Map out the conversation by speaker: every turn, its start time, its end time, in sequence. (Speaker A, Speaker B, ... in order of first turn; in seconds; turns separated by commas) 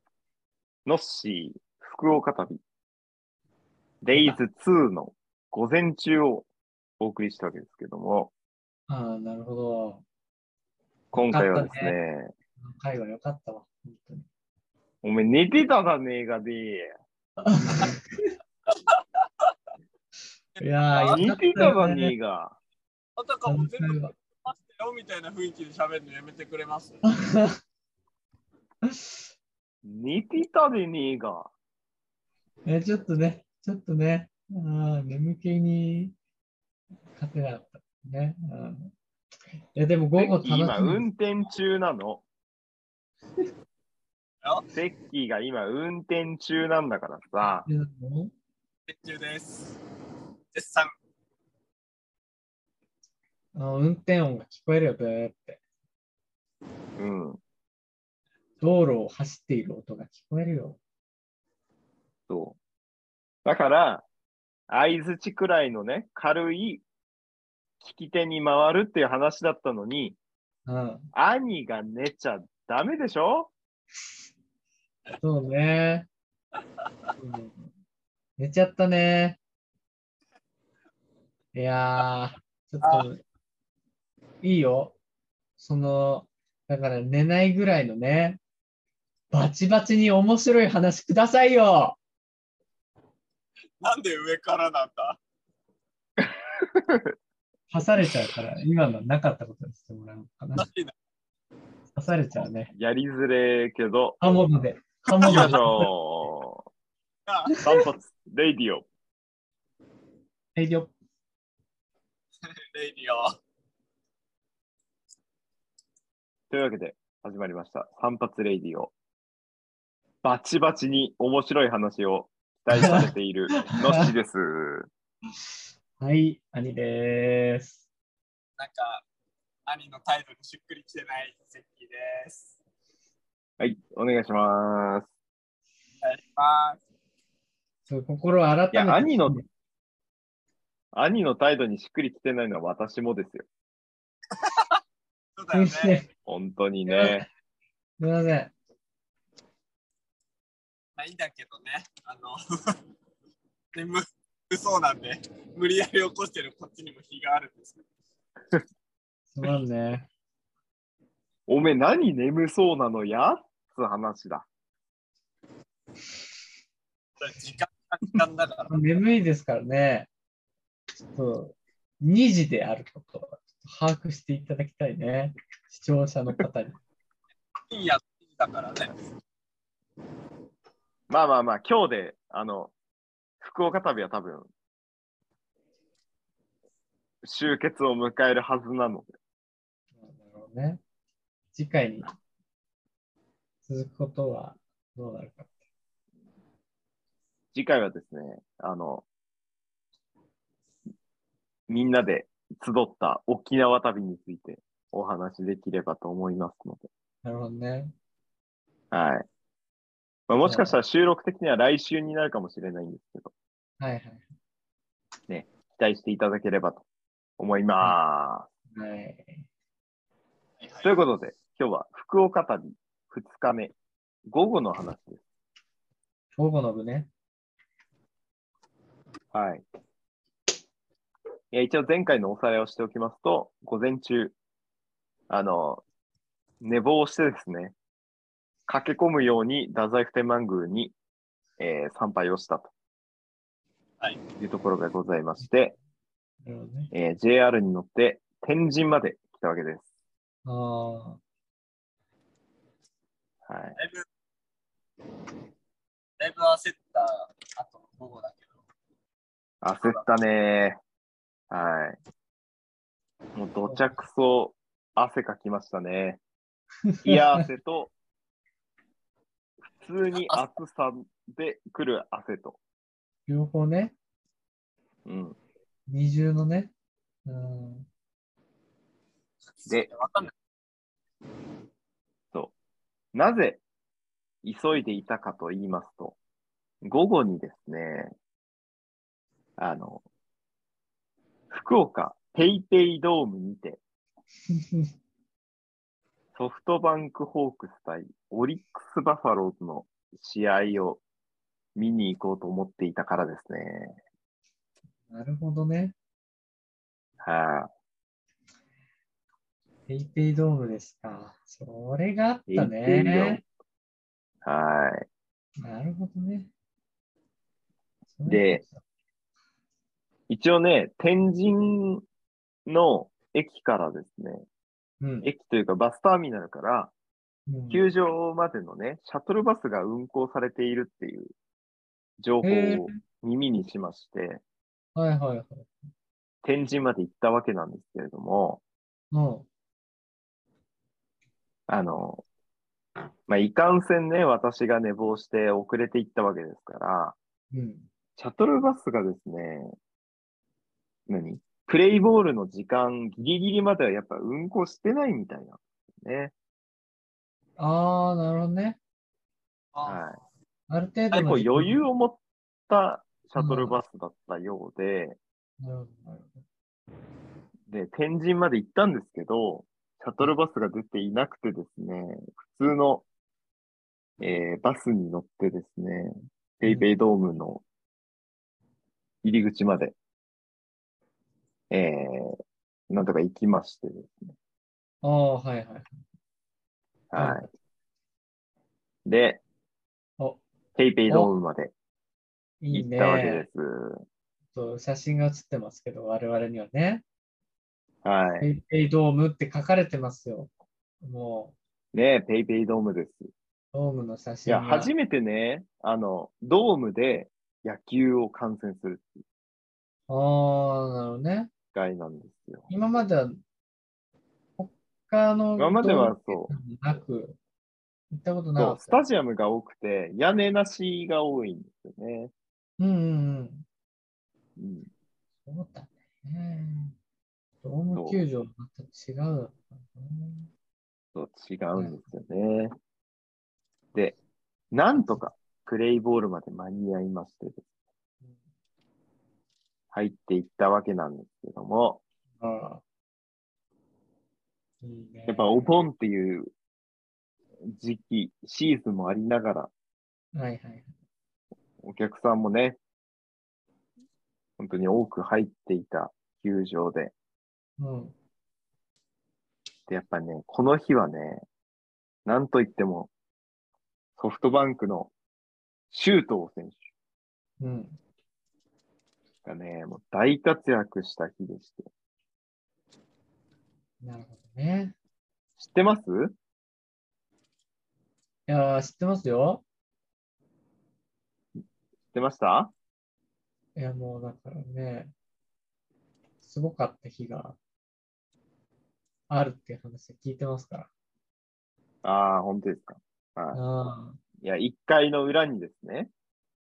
Speaker A: 0.8-2.6, Speaker A: 4.0-6.5, Speaker A: 7.0-8.3, Speaker B: 8.9-10.0, Speaker A: 11.1-12.3, Speaker B: 11.1-11.9, Speaker B: 12.6-14.3, Speaker A: 15.0-16.9, Speaker B: 17.4-18.1, Speaker C: 20.6-21.3, Speaker B: 20.6-22.1, Speaker A: 21.1-22.6, Speaker C: 23.2-27.0, Speaker B: 23.4-24.1, Speaker B: 27.0-27.6, Speaker B: 28.8-29.2, Speaker A: 29.8-31.5, Speaker B: 32.6-36.1, Speaker B: 37.1-38.9, Speaker B: 39.7-41.0, Speaker A: 40.1-42.2, Speaker A: 44.7-47.7, Speaker B: 47.4-48.3, Speaker C: 48.9-49.8, Speaker C: 50.5-50.9, Speaker B: 53.5-55.6, Speaker A: 57.0-57.4, Speaker B: 58.6-60.8, Speaker A: 62.3-62.6, Speaker A: 63.4-64.0, Speaker A: 64.7-66.8, Speaker A: 67.8-70.2, Speaker B: 70.7-71.1, Speaker A: 71.1-73.5, Speaker B: 75.2-76.1, Speaker B: 77.2-77.7, Speaker B: 78.4-79.4, Speaker B: 81.5-83.2, Speaker B: 84.4-85.0, Speaker B: 85.6-88.4, Speaker B: 89.3-92.0, Speaker C: 93.8-95.2, Speaker A: 96.2-97.1, Speaker B: 97.7-100.7, Speaker C: 100.6-100.9, Speaker B: 101.9-102.7, Speaker A: 102.7-104.2, Speaker B: 104.2-105.9, Speaker A: 105.2-106.7, Speaker C: 105.2-105.6, Speaker C: 107.3-107.6, Speaker A: 107.6-108.8, Speaker B: 110.5-110.9, Speaker C: 112.6-113.3, Speaker A: 116.5-118.9, Speaker A: 120.2-124.9, Speaker B: 122.7-123.0, Speaker B: 123.7-124.1, Speaker B: 126.0-127.8, Speaker C: 128.6-129.0, Speaker C: 129.7-132.6, Speaker A: 133.6-135.1, Speaker C: 136.0-136.8, Speaker B: 137.8-139.4, Speaker A: 138.7-139.4, Speaker A: 140.9-143.4, Speaker C: 144.3-144.8, Speaker C: 145.4-146.0, Speaker B: 145.5-146.1, Speaker A: 146.3-147.2, Speaker B: 146.9-147.2, Speaker B: 148.0-148.5, Speaker C: 151.0-152.8, Speaker C: 153.7-157.8, Speaker B: 159.3-160.1, Speaker A: 161.5-164.4, Speaker C: 167.2-168.7, Speaker B: 168.7-170.1, Speaker B: 171.0-176.8, Speaker C: 177.7-178.9, Speaker A: 181.1-182.7, Speaker A: 183.4-184.5, Speaker A: 187.2-189.1, Speaker B: 190.0-190.8, Speaker B: 191.5-192.1, Speaker B: 193.7-195.5, Speaker A: 197.5-199.0, Speaker A: 201.7-206.9, Speaker B: 207.2-207.9, Speaker A: 208.9-209.2, Speaker A: 210.3-213.3, Speaker B: 210.4-210.8, Speaker B: 213.8-214.2, Speaker A: 215.3-216.8, Speaker A: 217.4-218.5, Speaker B: 218.7-219.4, Speaker A: 220.8-223.7, Speaker A: 224.3-225.2, Speaker B: 226.4-227.1, Speaker A: 229.3-229.6, Speaker A: 231.5-234.3, Speaker A: 235.3-235.8, Speaker A: 236.6-237.7, Speaker A: 238.7-240.9, Speaker A: 241.6-242.7, Speaker A: 244.4-245.8, Speaker B: 246.4-246.9, Speaker A: 246.9-249.8, Speaker B: 250.4-251.2, Speaker A: 253.4-253.8, Speaker C: 253.8-254.0, Speaker C: 256.2-258.4, Speaker A: 259.6-260.8, Speaker A: 261.5-262.0, Speaker A: 263.3-266.2, Speaker B: 266.9-267.4, Speaker A: 267.0-267.9, Speaker A: 269.8-272.6, Speaker C: 270.1-270.5, Speaker B: 273.3-273.9, Speaker A: 275.1-275.4, Speaker B: 275.9-276.7, Speaker B: 277.2-277.9, Speaker C: 279.5-280.3, Speaker A: 283.1-283.6, Speaker A: 284.4-286.2, Speaker A: 286.8-288.1, Speaker A: 289.6-290.0, Speaker A: 291.5-293.8, Speaker B: 294.5-294.9, Speaker A: 296.3-301.0, Speaker A: 301.8-303.9, Speaker B: 305.1-305.9, Speaker A: 307.2-307.7, Speaker B: 309.9-313.4, Speaker A: 312.5-313.4, Speaker A: 314.4-315.0, Speaker B: 315.6-316.5, Speaker B: 318.1-318.8, Speaker A: 318.2-318.6, Speaker A: 320.3-322.1, Speaker A: 322.6-324.4, Speaker B: 325.0-325.3, Speaker A: 325.2-326.9, Speaker B: 327.5-327.9, Speaker A: 327.7-331.3, Speaker A: 332.2-334.4, Speaker B: 332.4-333.0, Speaker B: 334.9-335.7, Speaker A: 336.4-338.6, Speaker B: 339.1-339.5, Speaker A: 341.7-342.2, Speaker A: 343.3-347.1, Speaker B: 347.5-347.9, Speaker A: 348.2-349.7, Speaker A: 351.1-356.3, Speaker B: 357.6-358.8, Speaker C: 359.7-360.0, Speaker A: 359.8-360.2, Speaker B: 360.7-361.8, Speaker A: 361.1-365.2, Speaker B: 363.4-363.8, Speaker B: 365.6-366.4, Speaker A: 367.7-373.0, Speaker A: 374.2-377.6, Speaker A: 379.2-379.9, Speaker A: 381.7-382.4, Speaker A: 382.9-384.3, Speaker B: 385.0-386.0, Speaker A: 387.1-387.5, Speaker B: 387.1-387.5, Speaker A: 389.1-389.4, Speaker A: 390.8-391.7, Speaker B: 392.6-393.5, Speaker A: 392.7-394.0, Speaker B: 394.5-397.0, Speaker A: 398.0-398.5, Speaker B: 398.4-400.5, Speaker B: 401.0-401.5, Speaker A: 401.9-403.3, Speaker B: 403.7-404.9, Speaker A: 404.4-409.2, Speaker B: 410.1-411.5, Speaker A: 411.7-412.7, Speaker B: 412.7-413.4, Speaker B: 414.6-417.4, Speaker A: 415.6-416.5, Speaker B: 418.1-419.0, Speaker A: 418.6-422.3, Speaker B: 422.8-423.6, Speaker A: 424.6-424.9, Speaker B: 425.4-426.9, Speaker B: 427.6-430.5, Speaker A: 427.9-428.2, Speaker A: 431.1-432.7, Speaker B: 431.7-432.2, Speaker A: 434.7-437.6, Speaker A: 439.9-442.0, Speaker B: 442.4-442.8, Speaker B: 444.8-445.7, Speaker A: 445.3-446.5, Speaker A: 447.8-449.7, Speaker B: 450.3-450.9, Speaker A: 451.8-452.8, Speaker A: 454.6-457.1, Speaker B: 457.8-458.1, Speaker A: 459.9-461.4, Speaker A: 462.2-463.1, Speaker A: 464.2-465.1, Speaker A: 465.9-466.8, Speaker B: 467.6-468.0, Speaker A: 469.4-471.9, Speaker B: 474.0-474.9, Speaker A: 475.6-476.3, Speaker B: 478.5-479.6, Speaker A: 482.1-482.7, Speaker B: 483.8-485.1, Speaker B: 486.4-487.6, Speaker B: 489.3-490.9, Speaker A: 492.0-493.6, Speaker B: 493.5-494.2, Speaker A: 494.4-496.1